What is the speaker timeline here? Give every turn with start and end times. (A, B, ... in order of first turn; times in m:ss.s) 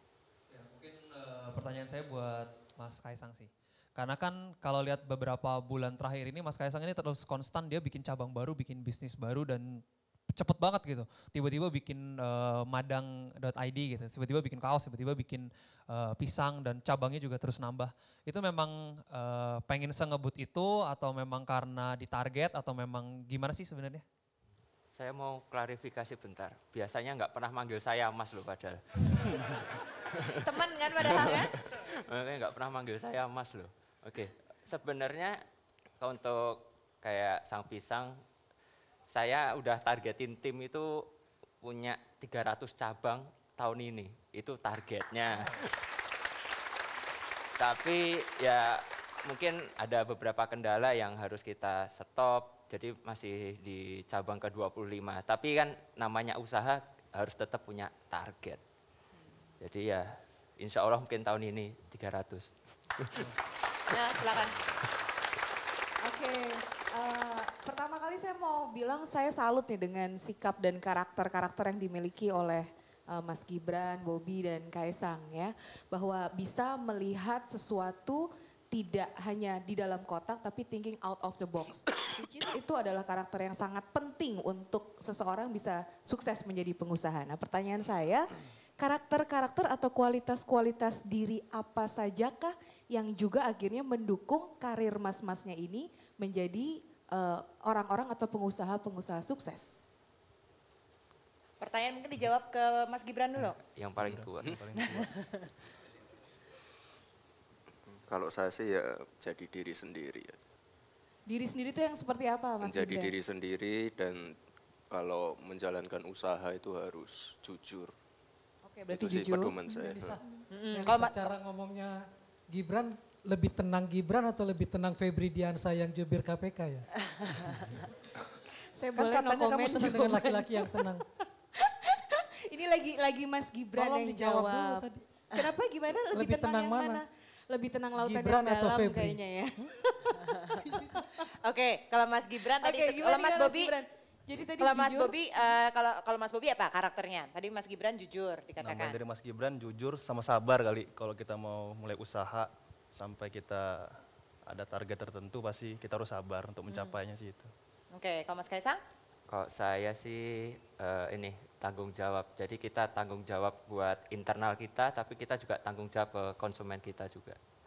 0:00.5-0:24.0 A
0:24.9-0:29.6 B
0:30.3-0:31.5 C
0:31.7-0:35.4 B
0:36.0-0:38.2 B
0:39.1-0:41.1 B
0:41.6-0:45.7 B
0:47.6-0:58.6 B
0:59.6-1:02.5 B
1:03.9-1:04.6 C
1:06.0-1:39.8 D
1:41.6-1:43.6 C
1:43.8-1:45.0 B
1:44.0-1:45.2 E
1:48.1-1:50.4 F
1:51.3-1:53.1 D
1:52.6-1:54.3 F
1:54.9-1:57.9 F
1:58.6-1:59.6 D
1:58.9-2:00.2 F
1:59.8-2:00.2 G
2:00.5-2:01.2 C
2:00.7-2:06.9 G
2:08.8-2:10.8 D
2:09.0-2:11.0 G
2:11.6-2:20.3 D
2:13.7-2:15.0 G
2:16.1-2:17.0 G
2:18.0-2:19.2 G
2:21.4-2:23.7 C
2:22.6-2:25.2 D
2:24.6-2:29.0 C
2:28.6-2:37.5 E
2:37.9-2:38.8 C
2:39.3-2:47.4 B